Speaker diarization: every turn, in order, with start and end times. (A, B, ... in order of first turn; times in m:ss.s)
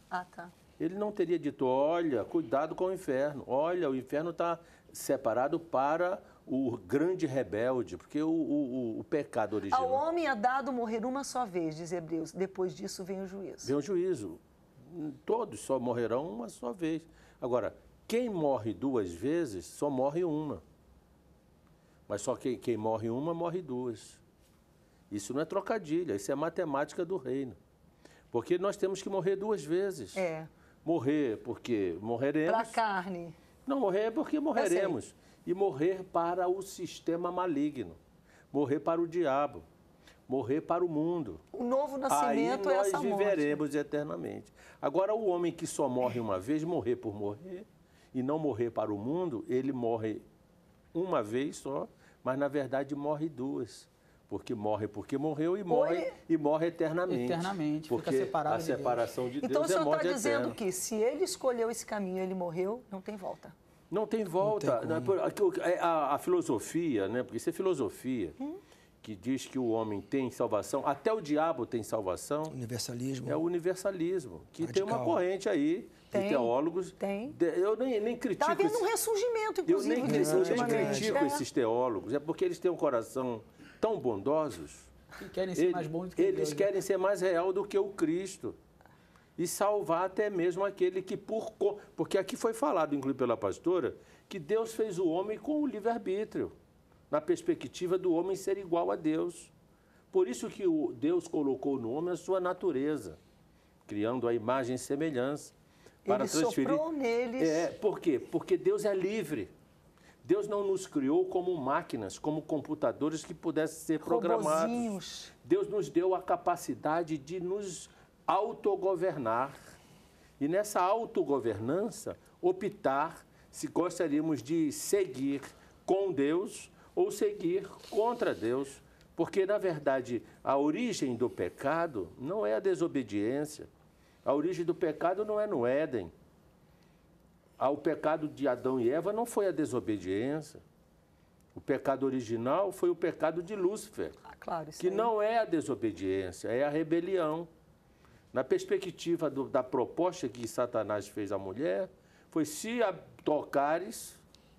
0:00.1-0:00.5 A
0:00.8-0:10.0 B
0:09.7-0:13.7 A
0:13.6-0:20.6 B
0:22.1-0:24.2 B
0:25.1-0:27.6 B
0:28.3-0:30.2 B
0:30.2-0:30.5 A
0:30.8-0:32.8 B
0:32.5-0:33.4 A
0:33.6-0:38.0 B
0:34.5-0:34.9 A
0:38.5-0:39.6 B
0:40.3-0:41.4 B
0:41.5-0:43.6 A
0:42.1-0:50.2 B
0:50.9-1:00.6 B
0:55.7-0:56.1 A
0:57.1-0:59.0 C
0:59.4-1:03.5 A
1:03.9-1:08.4 B
1:04.4-1:05.2 D
1:09.0-1:12.5 B
1:12.5-1:13.4 D
1:13.2-1:18.9 B
1:14.6-1:15.2 D
1:16.1-1:17.4 A
1:18.4-1:21.4 A
1:19.6-1:24.9 B
1:20.0-1:21.2 D
1:25.2-1:26.7 C
1:25.6-1:28.6 B
1:29.4-1:36.5 B
1:37.1-1:39.5 B
1:40.1-1:43.2 B
1:43.9-1:45.5 B
1:46.0-1:47.7 A
1:46.1-1:46.8 B
1:47.4-1:49.5 B
1:50.2-1:59.6 B
1:54.0-1:55.3 A
2:00.4-2:13.7 B
2:14.2-2:16.1 B
2:17.6-2:20.6 B
2:21.5-2:24.2 B
2:24.2-2:25.1 A
2:24.8-2:27.5 B
2:28.3-2:34.2 B